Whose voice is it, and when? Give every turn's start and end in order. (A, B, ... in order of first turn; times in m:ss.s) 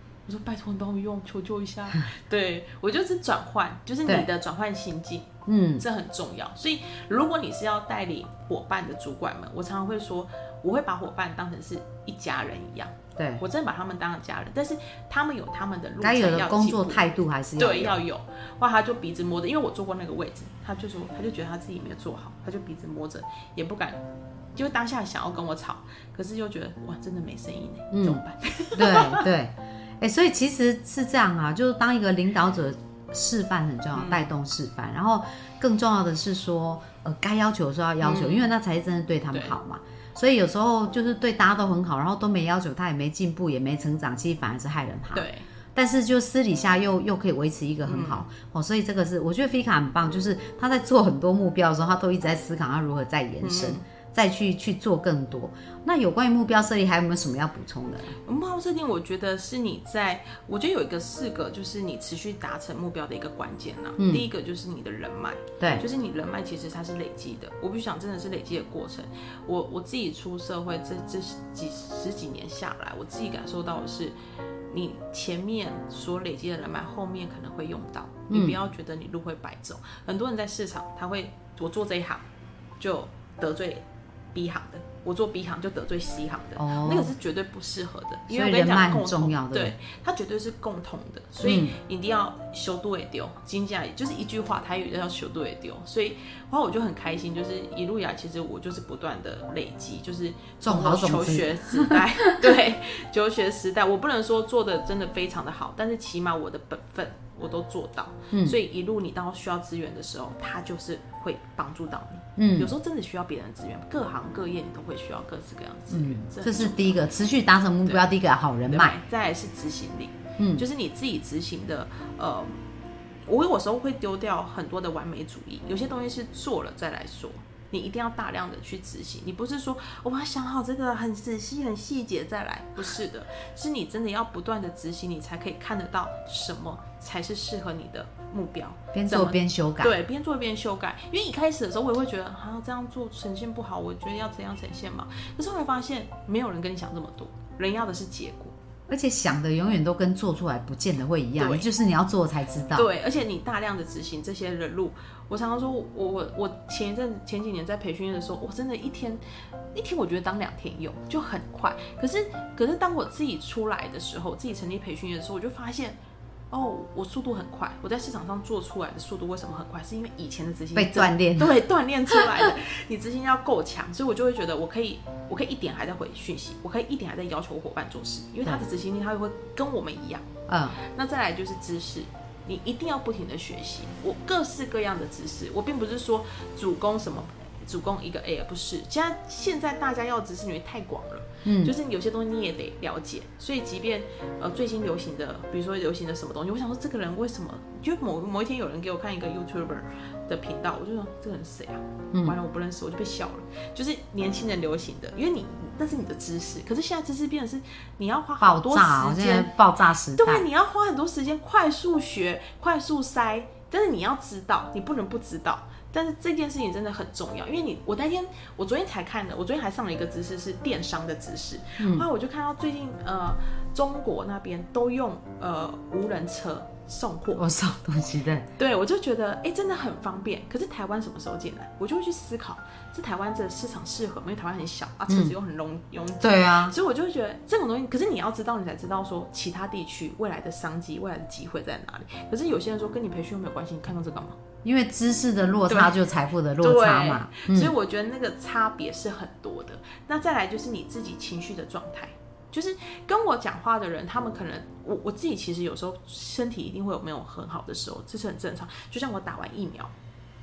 0:00.2-0:24.0 A
0:05.4-0:05.8 B
0:13.2-0:13.4 B
0:16.0-0:18.0 B
0:24.6-0:29.3 A
0:27.9-0:28.2 B
0:28.7-0:58.1 B
0:33.9-0:34.3 A
0:38.0-0:38.5 A
0:45.1-0:45.4 A
0:47.8-0:48.2 A
0:53.4-0:53.8 A
0:58.2-1:14.2 A
1:04.0-1:04.3 B
1:05.6-1:05.8 B
1:14.7-1:22.2 A
1:18.3-1:18.6 B
1:22.8-1:57.0 A
1:26.6-1:27.1 B
1:28.3-1:29.7 B
1:31.4-1:31.7 B
1:40.6-1:42.0 B
1:48.3-1:48.6 B
1:52.4-1:52.7 B
1:55.9-1:59.0 B
1:57.8-1:58.1 A
1:58.6-2:02.6 A
2:00.4-2:00.6 B
2:03.2-2:28.5 A
2:18.9-2:19.9 B
2:28.9-2:32.9 B
2:31.4-2:31.7 A
2:32.7-2:39.2 A
2:39.7-2:46.0 A
2:46.5-3:29.5 A
2:50.7-2:51.6 B
3:00.5-3:00.8 B
3:11.4-3:11.7 B
3:22.1-3:22.4 B
3:28.4-3:30.5 B
3:30.1-3:47.4 A
3:41.8-3:42.1 B
3:47.3-3:48.5 B
3:48.6-4:04.4 A
3:55.1-3:55.4 B
3:56.2-3:56.8 B
4:04.6-4:07.7 B
4:05.7-4:06.0 A
4:06.6-4:19.9 A